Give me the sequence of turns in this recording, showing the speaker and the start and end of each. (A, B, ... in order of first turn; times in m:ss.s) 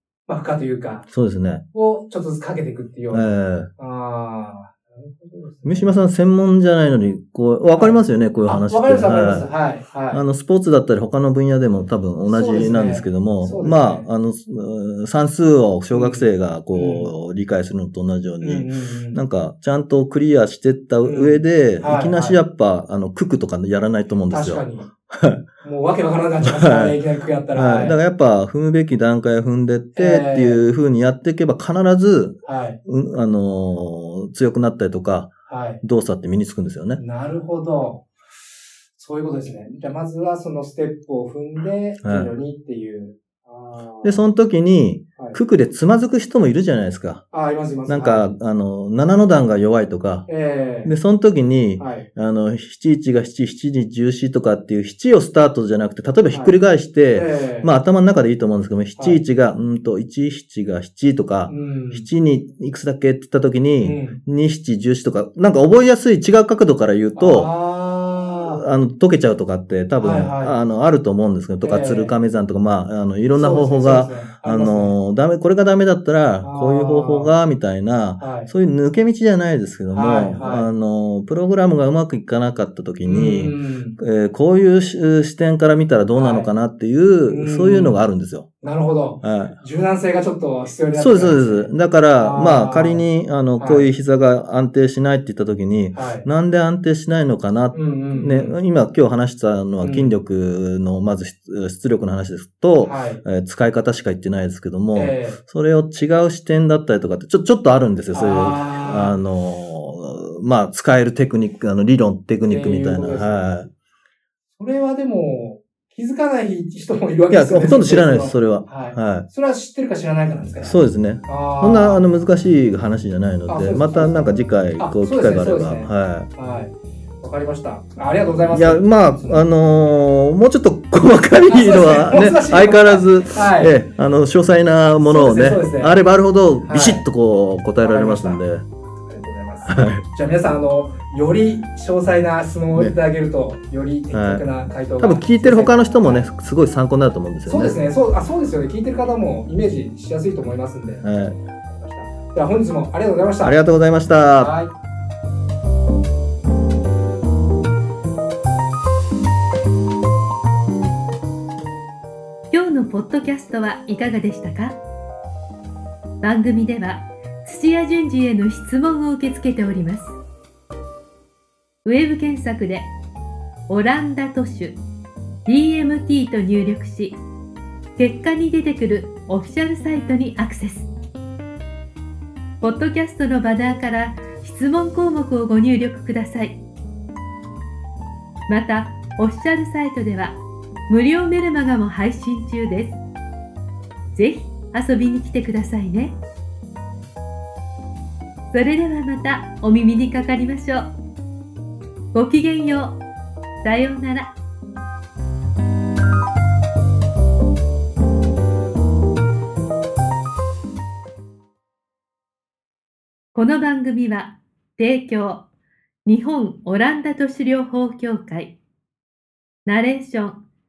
0:00.2-0:01.1 A
0:01.1-0:01.6 B
0:01.7-0:06.0 A
0:03.1-0:03.7 B
0:05.6-0:09.5 B
0:07.7-0:10.2 A
0:10.1-0:25.4 B
0:12.2-0:14.1 A
0:15.9-0:17.1 A
0:18.4-0:19.2 A
0:21.0-0:22.4 A
0:24.3-0:24.9 A
0:25.6-0:28.0 A
0:26.4-0:27.0 B
0:27.5-0:37.0 B
0:29.9-0:30.6 A
0:32.4-0:32.8 A
0:35.5-0:35.8 A
0:37.0-0:38.0 A
0:38.9-0:44.3 A
0:42.0-0:42.3 B
0:44.0-0:47.2 B
0:47.3-0:48.3 A
0:47.9-0:50.3 B
0:50.3-0:50.9 A
0:50.8-1:07.5 B
0:51.8-0:52.1 A
0:56.3-0:56.6 A
0:57.1-0:57.7 A
0:59.0-0:59.2 A
1:01.5-1:02.1 A
1:03.8-1:04.2 A
1:07.2-1:08.6 A
1:08.5-1:28.5 B
1:10.0-1:10.6 A
1:11.6-1:12.1 A
1:13.3-1:15.0 A
1:16.4-1:17.3 A
1:18.2-1:18.5 A
1:19.9-1:20.7 A
1:23.0-1:24.0 A
1:26.1-1:26.5 A
1:27.3-1:28.0 A
1:28.6-1:33.9 A
1:29.2-1:29.6 B
1:30.9-1:53.7 B
1:35.9-1:36.3 A
1:37.7-1:38.6 A
1:39.8-1:40.1 A
1:42.8-1:43.2 A
1:44.9-1:45.4 A
1:48.1-1:49.2 A
1:52.5-1:53.5 A
1:54.5-2:02.0 A
1:57.3-1:59.2 B
2:00.6-2:06.3 B
2:03.5-2:09.5 A
2:08.5-2:18.6 B
2:11.5-2:13.8 A
2:15.0-2:16.0 A
2:16.6-2:17.0 A
2:17.8-2:18.4 A
2:19.0-2:26.3 A
2:19.6-2:20.0 B
2:24.1-2:24.4 B
2:25.0-2:27.8 B
2:27.4-2:33.6 A
2:31.0-2:31.4 B
2:33.4-2:34.6 B
2:34.4-2:34.7 A
2:42.5-2:44.8 C
2:46.2-2:50.2 C
2:51.8-2:52.9 C
2:53.7-2:54.8 C
2:55.4-2:57.2 C
2:58.0-3:00.9 C
3:02.6-3:06.6 C
3:08.5-3:13.0 C
3:14.1-3:16.2 C
3:18.5-3:20.9 C
3:22.1-3:23.0 C
3:23.6-3:24.3 C
3:33.3-3:35.5 C
3:36.0-3:38.6 C
3:39.6-3:40.4 C